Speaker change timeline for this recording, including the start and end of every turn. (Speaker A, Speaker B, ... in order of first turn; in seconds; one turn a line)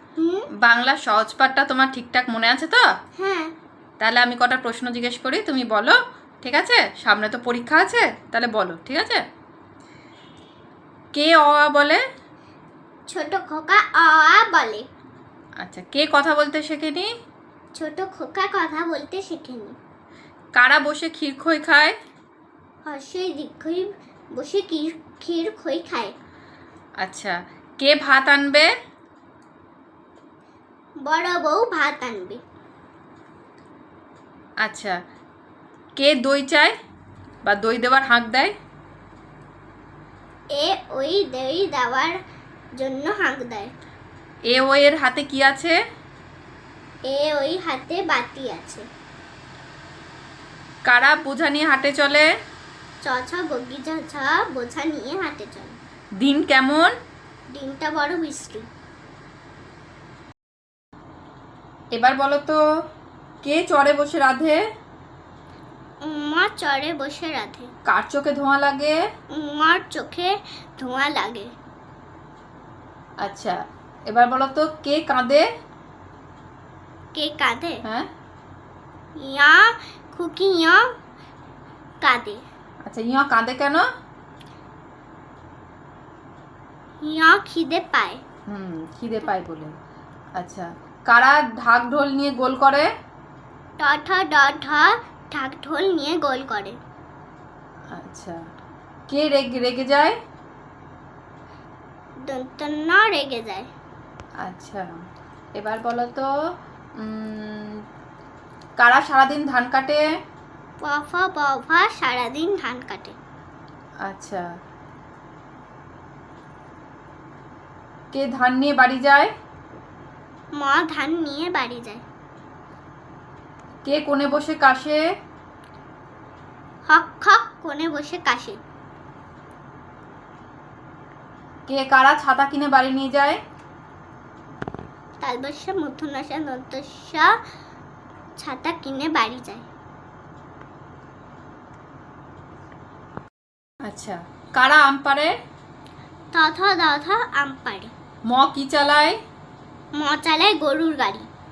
Speaker A: 0.2-0.5
Speaker B: 0.6-2.8
Speaker A: 3.2-3.5
Speaker B: 4.0-9.2
Speaker B: 11.1-12.0
Speaker A: 13.1-14.9
Speaker B: 15.6-17.1
Speaker A: 17.7-19.8
Speaker B: 20.5-21.9
Speaker A: 22.8-26.1
Speaker B: 27.0-28.7
Speaker A: 31.0-32.4
Speaker B: 34.6-35.0
Speaker B: 36.0-36.7
Speaker B: 37.4-38.5
Speaker A: 40.5-42.2
Speaker A: 42.8-43.7
Speaker B: 44.5-45.8
Speaker A: 47.1-48.8
Speaker B: 50.9-52.3
Speaker A: 53.0-55.8
Speaker B: 56.2-56.9
Speaker A: 57.5-58.7
Speaker B: 61.9-62.6
Speaker B: 63.4-64.6
Speaker A: 66.0-67.7
Speaker B: 67.9-69.0
Speaker A: 69.3-71.5
Speaker B: 73.2-75.5
Speaker A: 77.1-77.8
Speaker A: 79.2-80.9
Speaker A: 82.0-82.4
Speaker B: 82.8-83.8
Speaker A: 87.0-88.2
Speaker B: 88.5-89.7
Speaker B: 90.4-92.9
Speaker A: 93.8-96.8
Speaker B: 97.9-98.4
Speaker B: 99.1-100.1
Speaker A: 102.2-103.7
Speaker B: 104.4-104.9
Speaker B: 105.5-106.3
Speaker B: 107.0-107.8
Speaker B: 108.8-110.0
Speaker A: 110.8-113.2
Speaker B: 114.0-114.4
Speaker B: 118.1-119.3
Speaker A: 120.6-122.0
Speaker B: 123.8-125.0
Speaker A: 126.9-128.6
Speaker B: 131.7-133.4
Speaker A: 135.2-137.3
Speaker A: 138.4-139.7
Speaker B: 143.9-145.3
Speaker A: 146.3-147.9
Speaker B: 148.3-149.2
Speaker A: 150.0-151.3